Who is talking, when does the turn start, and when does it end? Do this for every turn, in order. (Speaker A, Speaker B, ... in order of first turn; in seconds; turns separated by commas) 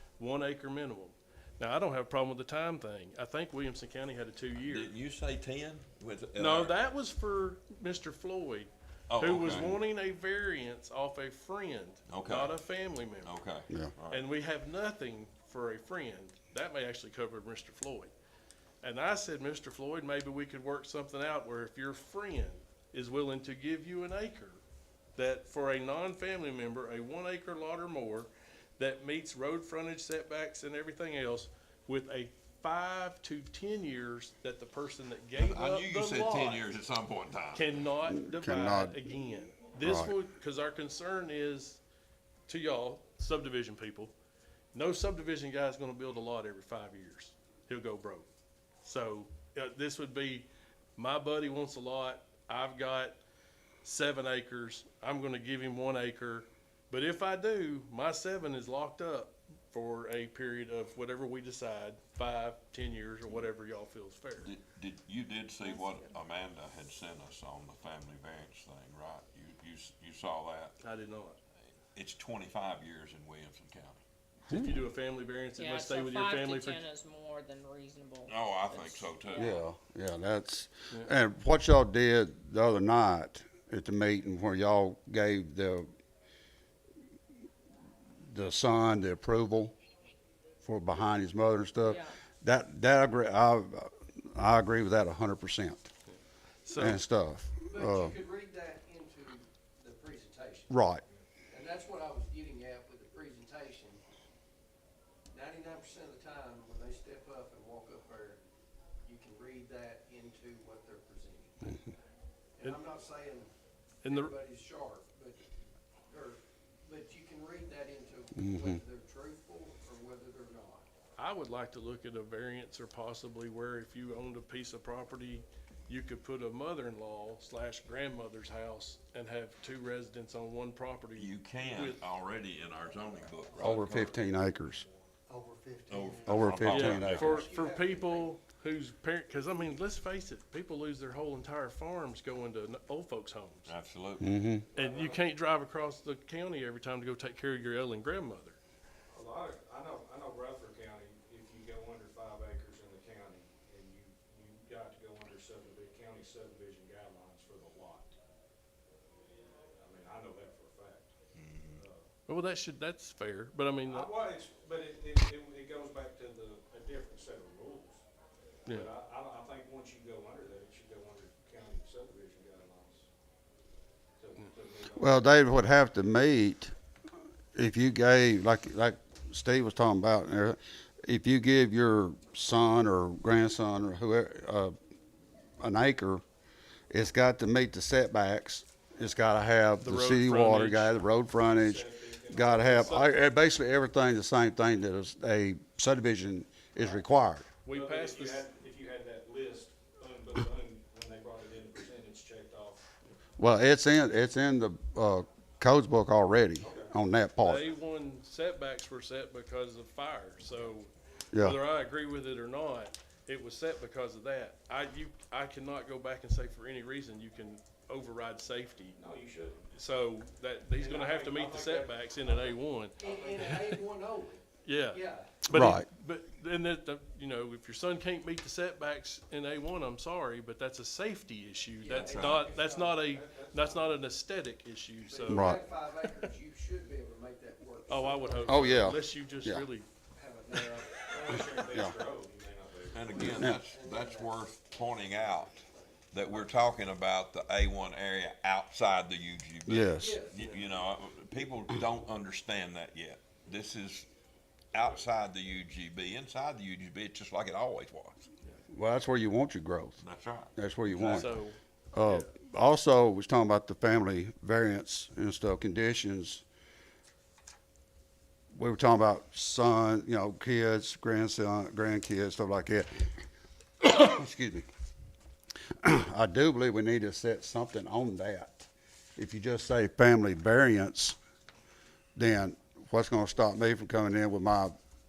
Speaker A: 0.2-4.9, Speaker B: 4.5-6.8, Speaker A: 6.3-13.3, Speaker B: 9.1-9.8, Speaker B: 12.1-12.6, Speaker B: 13.2-14.2, Speaker A: 14.1-18.1, Speaker A: 18.8-24.6, Speaker A: 25.1-36.6, Speaker B: 35.4-37.7, Speaker A: 37.5-41.8, Speaker C: 38.0-39.0, Speaker C: 39.8-40.2, Speaker A: 42.5-44.1, Speaker A: 44.7-48.3, Speaker A: 48.8-53.2, Speaker A: 53.8-64.5, Speaker B: 64.4-70.8, Speaker A: 70.8-71.4, Speaker B: 71.9-74.0, Speaker A: 74.5-76.8, Speaker D: 75.6-79.6, Speaker B: 78.3-79.6, Speaker C: 79.3-85.9, Speaker C: 88.3-89.8, Speaker C: 90.6-95.9, Speaker D: 91.8-92.2, Speaker A: 96.6-97.0, Speaker C: 96.8-98.2, Speaker E: 97.7-100.7, Speaker C: 100.7-101.0, Speaker E: 101.5-104.0, Speaker E: 105.3-108.4, Speaker E: 109.0-111.8, Speaker E: 112.6-113.5, Speaker A: 114.0-114.3, Speaker E: 114.1-115.4, Speaker E: 116.1-120.9, Speaker C: 118.3-118.8, Speaker A: 121.2-132.0, Speaker B: 131.1-134.2, Speaker C: 133.6-134.8, Speaker E: 135.3-136.4, Speaker B: 135.9-137.5, Speaker C: 136.2-137.4, Speaker A: 136.7-143.7, Speaker E: 136.9-138.3, Speaker B: 143.7-144.3, Speaker C: 144.2-144.7, Speaker F: 144.7-145.3, Speaker A: 144.8-148.6, Speaker F: 149.1-158.1, Speaker F: 159.7-161.1, Speaker B: 161.3-161.8, Speaker F: 161.8-162.1, Speaker A: 162.3-164.1, Speaker F: 163.8-168.0, Speaker F: 168.7-173.1, Speaker F: 174.2-175.2, Speaker C: 174.9-176.7, Speaker C: 177.5-184.7, Speaker C: 185.6-186.2, Speaker C: 186.9-197.5, Speaker A: 189.8-191.0, Speaker F: 191.5-192.9, Speaker A: 192.6-193.1, Speaker A: 197.6-198.4, Speaker F: 197.7-202.9, Speaker C: 203.4-207.7, Speaker F: 206.6-206.9, Speaker A: 207.4-218.9, Speaker C: 211.3-211.6, Speaker F: 218.9-219.8, Speaker A: 219.7-223.7, Speaker F: 220.7-223.8, Speaker E: 223.0-225.4, Speaker A: 224.6-235.6, Speaker C: 225.5-225.9, Speaker E: 231.8-233.0, Speaker B: 231.8-232.5, Speaker F: 232.5-234.0, Speaker E: 235.1-239.0, Speaker C: 235.2-235.6, Speaker A: 237.9-239.9, Speaker C: 238.4-239.7, Speaker E: 240.1-241.1, Speaker F: 241.0-243.4, Speaker C: 241.3-241.9, Speaker B: 242.9-254.1, Speaker C: 243.2-243.6, Speaker E: 243.2-245.8, Speaker C: 249.6-250.2, Speaker E: 250.0-250.8, Speaker B: 254.7-258.2, Speaker C: 258.7-260.0, Speaker B: 260.0-261.4, Speaker C: 260.6-261.3, Speaker A: 261.1-262.3, Speaker C: 261.9-266.4, Speaker C: 268.5-273.1, Speaker C: 273.8-274.7, Speaker C: 275.8-281.2, Speaker C: 282.1-284.8